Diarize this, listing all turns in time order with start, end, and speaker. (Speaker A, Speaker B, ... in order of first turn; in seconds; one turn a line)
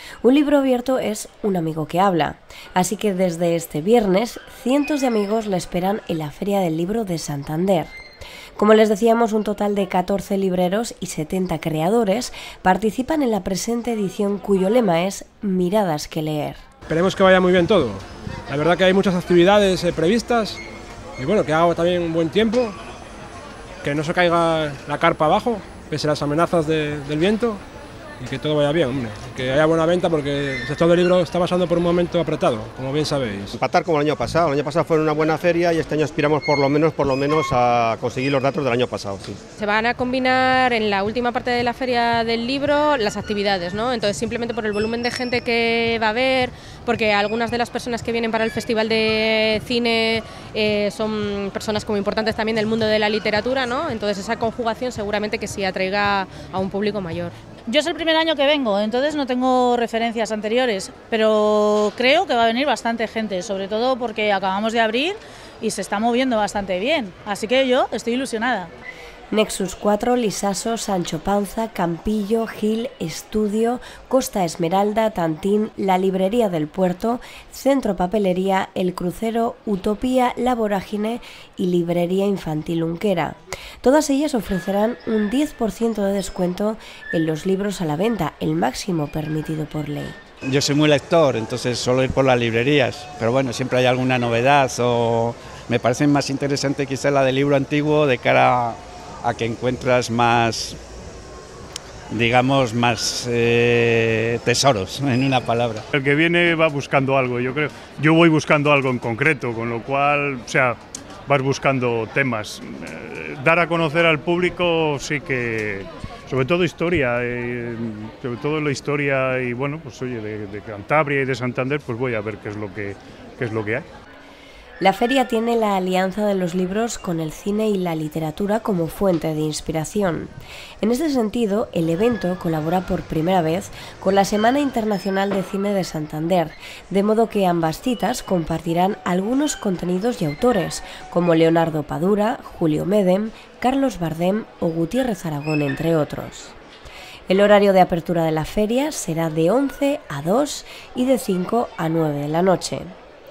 Speaker A: 0.2-7.9
Speaker A: 8.6-16.6
Speaker B: 16.9-20.6
Speaker B: 21.2-22.8
Speaker B: 23.8-27.6
Speaker B: 28.2-33.5
Speaker C: 33.5-39.4
Speaker D: 39.6-57.4
Speaker E: 57.7-68.7
Speaker A: 69.3-90.2
Speaker F: 90.5-100.8
Speaker F: 102.1-105.8
Speaker G: 105.9-123.9
Speaker A: 124.8-146.6
Speaker A: 147.3-152.9